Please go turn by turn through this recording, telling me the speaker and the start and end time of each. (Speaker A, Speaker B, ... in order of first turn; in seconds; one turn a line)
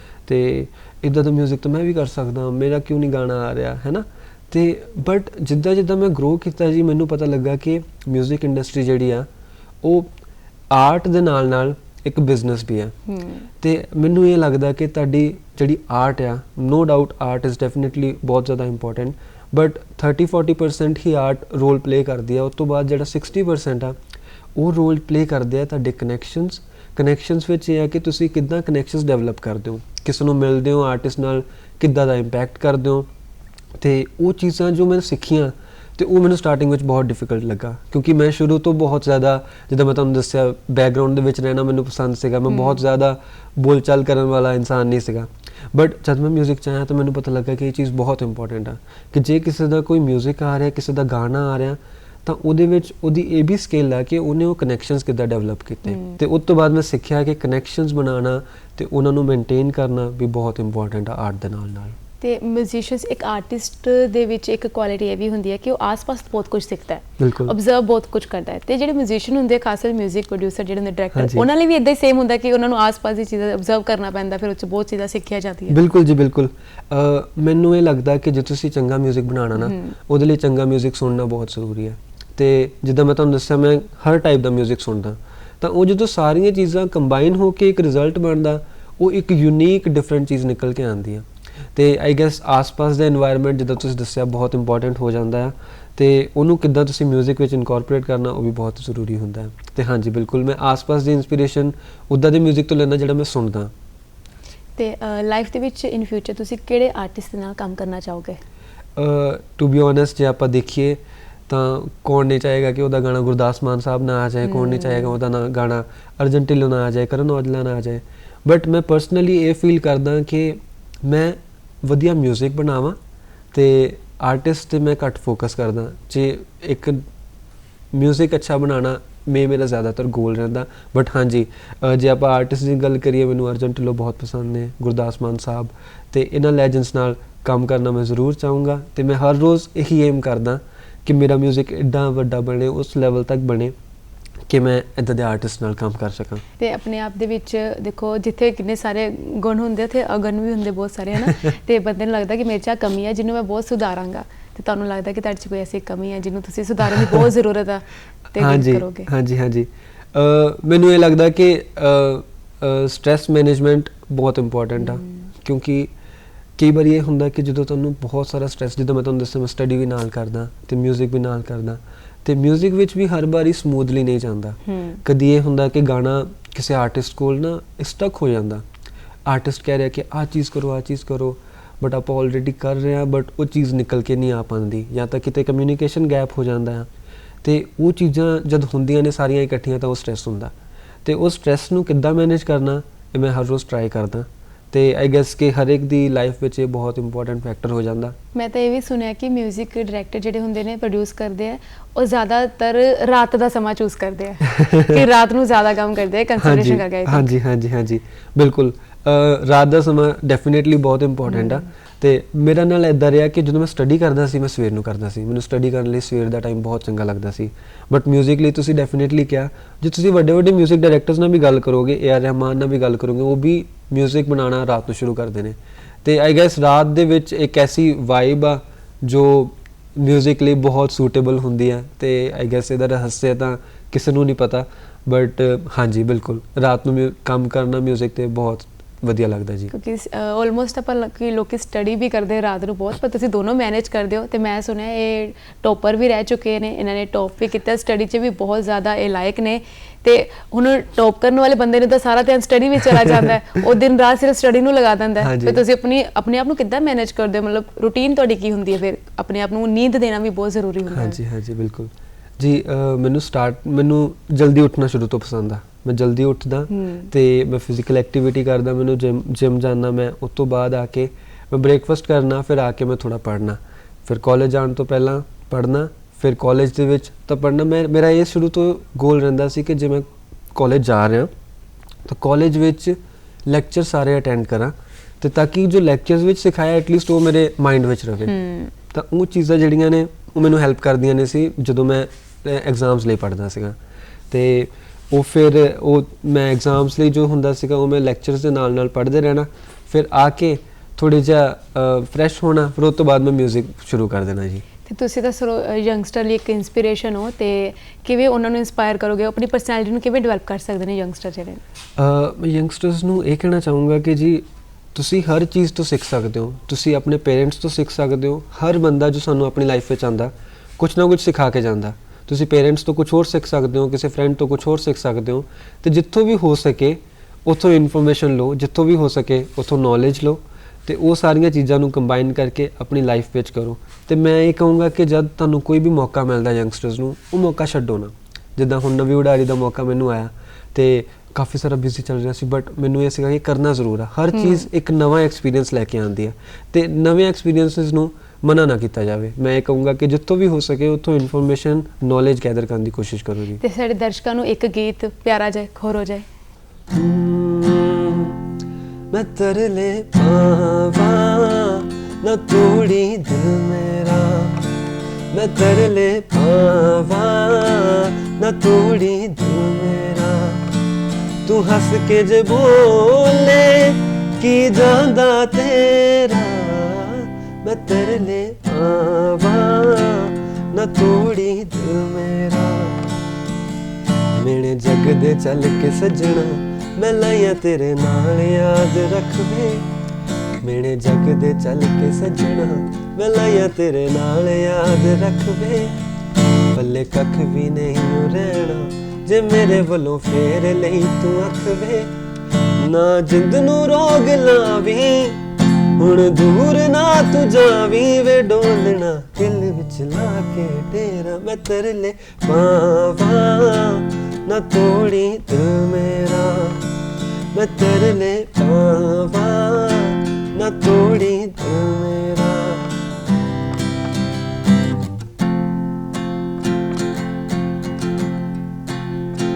Speaker A: 0.2-9.3
Speaker A: 9.8-10.1
Speaker A: 10.7-12.9
Speaker B: 13.1-13.4
Speaker A: 13.6-24.0
Speaker A: 24.6-33.1
Speaker A: 33.8-62.0
Speaker B: 42.5-42.8
Speaker B: 55.9-56.2
Speaker B: 62.2-75.8
Speaker A: 67.2-67.5
Speaker A: 71.1-71.5
Speaker A: 75.7-103.7
Speaker B: 79.6-80.0
Speaker B: 104.8-108.4
Speaker A: 109.0-123.0
Speaker B: 114.4-115.1
Speaker A: 123.5-127.0
Speaker A: 127.9-143.8
Speaker A: 144.5-146.4
Speaker B: 146.6-159.1
Speaker A: 151.2-151.5
Speaker A: 156.9-157.3
Speaker A: 158.4-165.9
Speaker B: 164.8-165.1
Speaker A: 166.6-178.6
Speaker B: 174.7-175.0
Speaker A: 179.3-186.9
Speaker A: 187.4-190.5
Speaker A: 191.1-198.2
Speaker B: 198.3-207.3
Speaker A: 204.5-205.0
Speaker A: 206.4-239.7
Speaker B: 211.3-211.6
Speaker B: 239.7-261.2
Speaker A: 252.8-253.3
Speaker A: 255.2-255.6
Speaker A: 260.9-281.3
Speaker B: 266.7-267.1
Speaker A: 282.1-288.4
Speaker B: 288.3-288.7
Speaker A: 288.9-293.8
Speaker A: 294.3-304.6
Speaker B: 304.9-311.6
Speaker A: 311.9-353.6
Speaker B: 344.4-344.6
Speaker B: 353.6-356.3
Speaker A: 356.9-358.4
Speaker A: 359.1-364.6
Speaker A: 365.3-370.7
Speaker A: 371.4-383.2
Speaker A: 384.4-389.9
Speaker A: 390.6-395.9
Speaker A: 396.7-402.1
Speaker A: 402.8-405.4
Speaker A: 406.0-416.8
Speaker A: 417.5-422.9